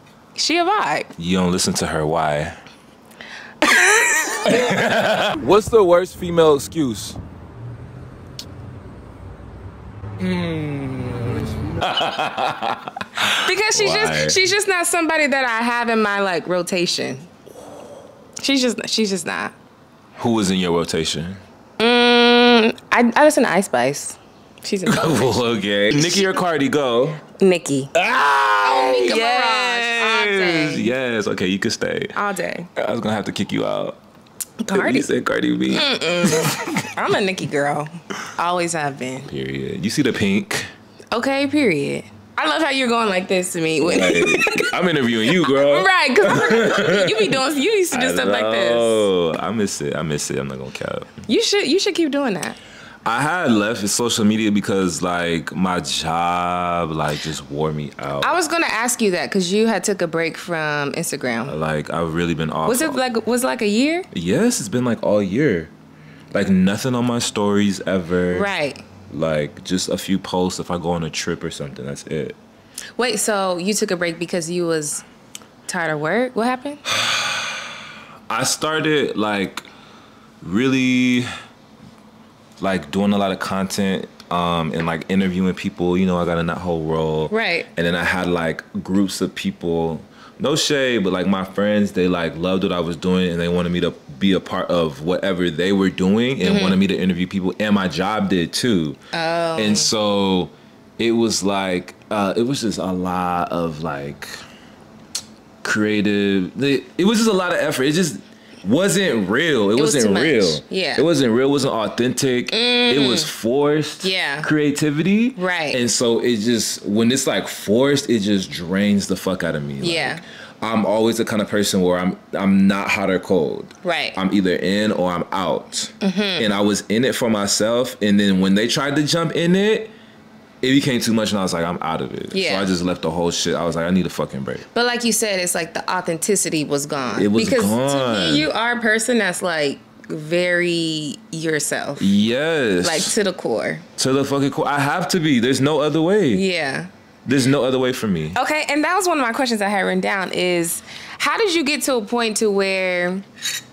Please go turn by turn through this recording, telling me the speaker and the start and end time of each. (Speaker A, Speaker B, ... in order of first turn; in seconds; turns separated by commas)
Speaker A: 0.3-1.1, Speaker B: 1.2-2.6, Speaker A: 3.6-4.8, Speaker B: 4.4-7.2, Speaker B: 10.2-14.4, Speaker A: 13.4-17.3, Speaker A: 18.4-19.5, Speaker B: 20.2-21.4, Speaker A: 21.8-26.4, Speaker B: 24.9-27.2, Speaker A: 27.4-27.9, Speaker B: 27.9-32.2, Speaker A: 28.6-30.9, Speaker A: 32.1-32.7, Speaker B: 32.7-34.0, Speaker A: 34.6-35.1, Speaker B: 34.7-36.9, Speaker A: 35.7-39.3, Speaker B: 39.2-40.7, Speaker A: 41.1-44.7, Speaker B: 43.8-51.2, Speaker A: 45.2-49.0, Speaker A: 51.3-52.6, Speaker B: 53.0-58.4, Speaker A: 58.2-61.5, Speaker B: 61.5-63.0, Speaker A: 62.6-64.1, Speaker B: 64.1-65.7, Speaker B: 66.3-68.5, Speaker A: 68.3-68.8, Speaker B: 69.1-72.4, Speaker A: 73.0-75.0, Speaker A: 75.7-76.8, Speaker B: 76.9-77.7, Speaker B: 78.3-79.7, Speaker B: 80.4-81.3, Speaker B: 82.6-99.0, Speaker A: 87.3-87.7, Speaker A: 96.4-96.8, Speaker A: 99.1-99.9, Speaker B: 99.5-104.4, Speaker B: 105.6-129.9, Speaker A: 109.8-111.0, Speaker A: 112.5-113.3, Speaker A: 114.0-114.5, Speaker A: 115.4-115.8, Speaker A: 119.8-120.2, Speaker A: 123.8-124.2, Speaker A: 126.0-126.5, Speaker B: 130.6-134.6, Speaker A: 132.3-132.7, Speaker A: 134.7-142.1, Speaker B: 137.1-138.5, Speaker B: 142.0-143.1, Speaker A: 142.8-143.8, Speaker B: 144.0-146.4, Speaker A: 146.3-146.9, Speaker B: 147.2-148.4, Speaker A: 148.3-153.2